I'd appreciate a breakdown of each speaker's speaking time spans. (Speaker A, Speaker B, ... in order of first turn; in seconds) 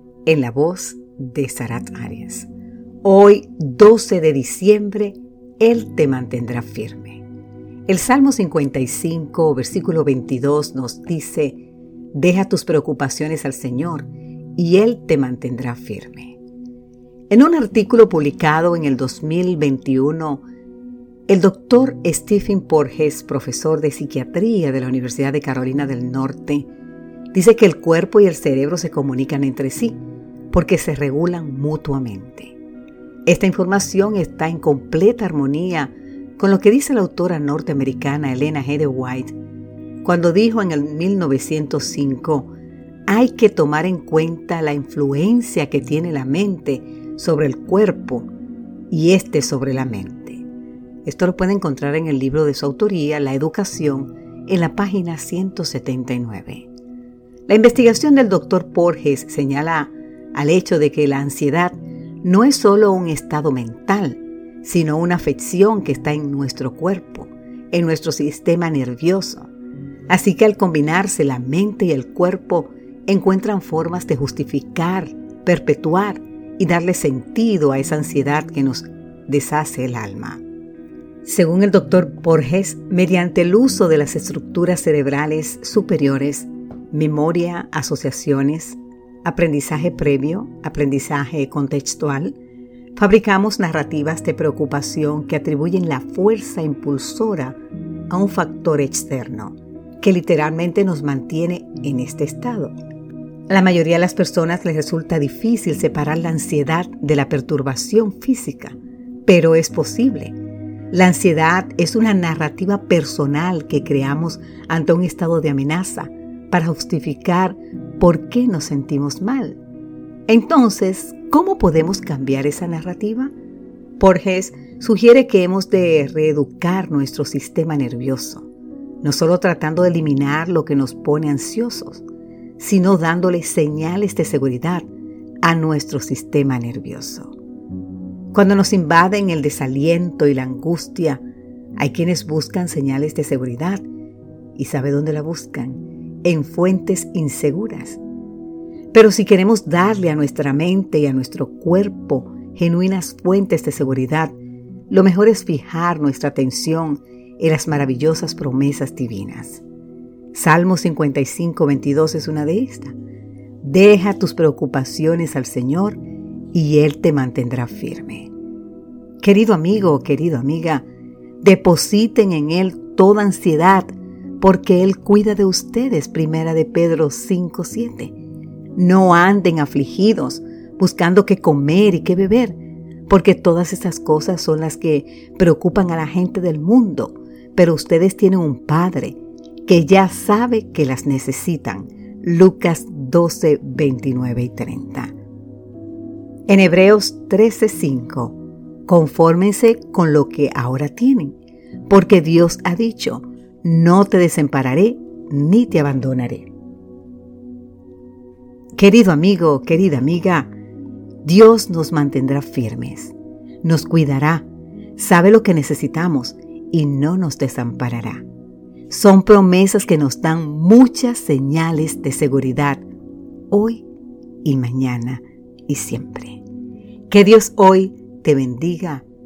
Speaker A: 0.2-2.5, 3.0-7.2, 7.9-11.6, 12.1-16.4, 17.3-20.4, 21.3-26.7, 27.3-30.0, 30.5-32.5, 33.2-39.3, 40.0-42.5, 43.1-48.3, 48.9-50.4, 51.0-56.7, 57.5-69.5, 70.1-80.4, 81.2-92.4, 93.0-97.6, 98.1-102.7, 103.5-110.3, 110.9-119.6, 120.3-123.3, 124.0-128.5, 129.0-132.0, 132.6-134.8, 135.4-137.3, 138.3-141.2, 141.8-143.8, 144.6-148.0, 148.9-154.3, 154.9-159.6, 160.3-162.9, 163.6-166.0, 166.5-168.3, 169.2-170.8, 171.4-178.1, 178.8-195.1, 196.5-201.3, 201.9-206.5, 208.8-210.5, 211.2-218.2, 218.9-222.8, 223.5-223.8, 224.4-226.4, 227.1-229.1